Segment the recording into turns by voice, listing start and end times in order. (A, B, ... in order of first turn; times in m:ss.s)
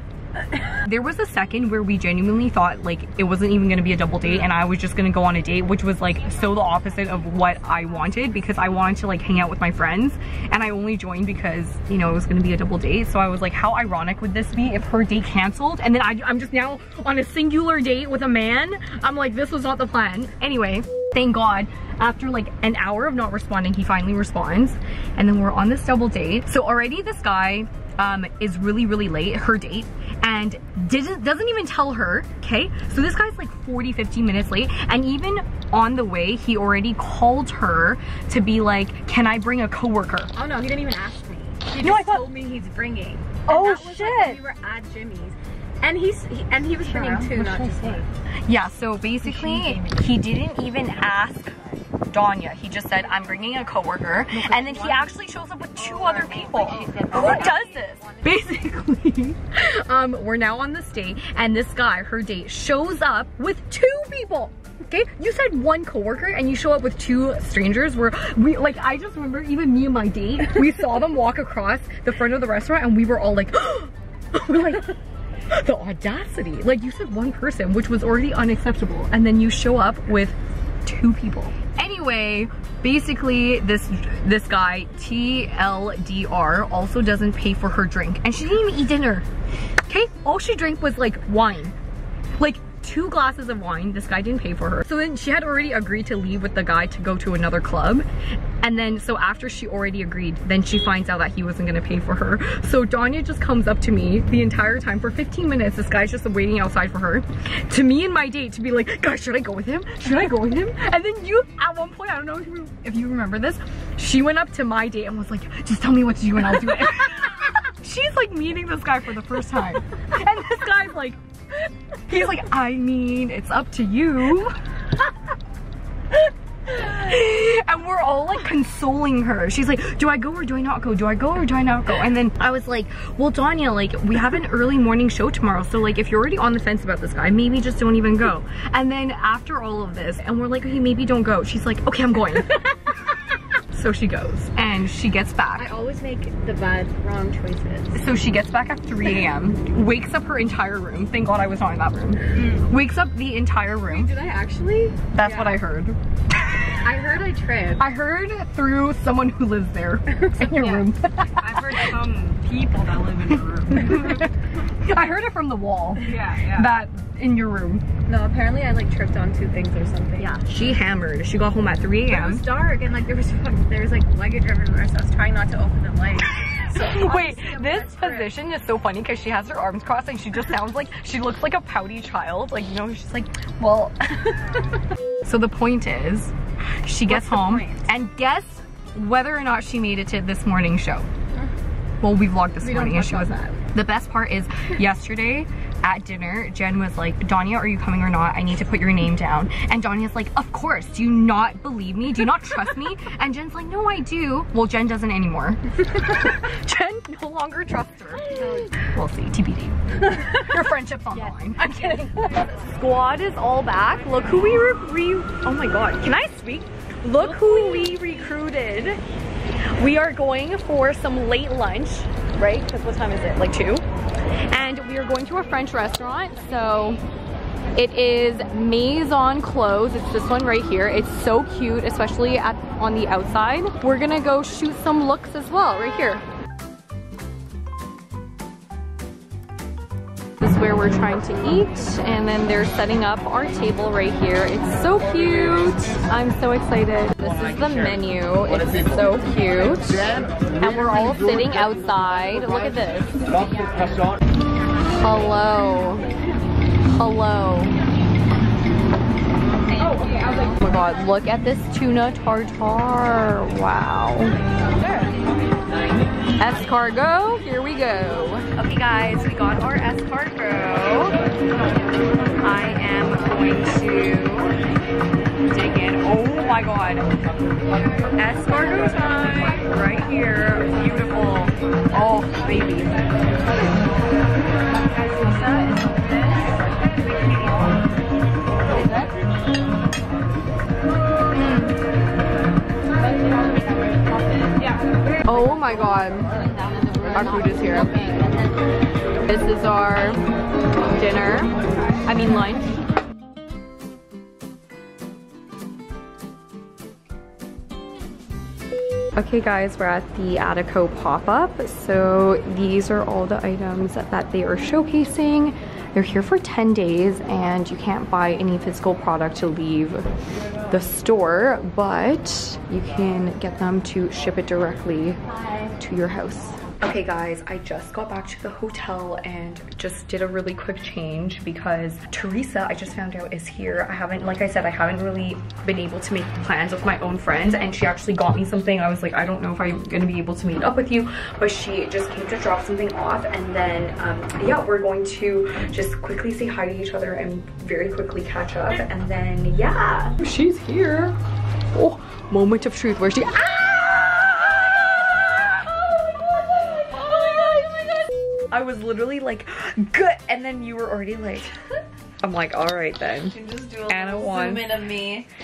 0:00.8-0:40.3 A
0:40.4-0:48.1 B
0:41.8-0:42.3 A
0:43.5-0:44.4 A
0:46.9-0:47.3 A
0:47.2-0:48.0 C
0:48.5-0:51.5 A
0:49.3-0:49.9 B
0:52.1-1:15.0 A
0:54.8-0:55.0 C
0:55.9-0:58.3 B
0:56.0-0:57.6 C
1:15.5-1:29.3 A
1:29.9-1:31.7 A
1:32.4-1:38.0 A
1:38.6-2:01.2 A
2:02.1-2:04.6 A
2:06.7-2:22.7 A
2:23.7-2:25.8 A
2:25.6-2:28.0 B
2:27.9-2:34.2 A
2:33.9-2:35.6 B
2:35.1-2:36.0 A
2:36.8-2:37.9 B
2:37.8-2:41.9 A
2:40.1-2:40.8 B
2:41.4-2:44.2 C
2:43.7-2:44.3 A
2:44.8-2:47.8 A
2:46.0-2:46.7 C
2:48.1-2:50.4 B
2:50.2-2:52.5 A
2:52.1-2:58.3 B
2:56.5-3:04.2 A
3:05.2-3:11.1 A
3:07.1-3:07.9 B
3:12.0-3:39.0 A
3:12.6-3:13.6 B
3:28.3-3:28.7 B
3:37.2-3:37.8 B
3:39.8-3:43.8 A
3:44.5-3:47.0 A
3:47.7-3:56.2 A
4:00.4-4:13.7 A
4:14.9-4:16.1 A
4:16.8-4:17.8 A
4:19.8-4:20.1 A
4:20.0-4:20.5 C
4:20.6-4:25.0 A
4:26.4-4:31.2 A
4:32.4-4:34.5 A
4:35.5-4:37.1 A
4:38.2-4:42.9 A
4:44.9-4:46.6 C
4:47.3-4:47.6 C
4:51.3-4:51.8 A
4:54.6-4:54.8 C
4:55.3-4:56.3 A
4:56.4-4:58.3 C
4:56.4-4:58.5 B
4:57.1-4:58.1 A
4:59.3-5:00.2 A
5:00.9-5:01.5 A
5:02.0-5:02.7 A
5:09.2-5:20.1 A
5:20.7-5:51.2 A
5:51.7-5:55.6 A
5:56.8-5:58.0 A
5:58.5-6:01.6 A
6:02.2-6:04.9 A
6:03.4-6:04.9 C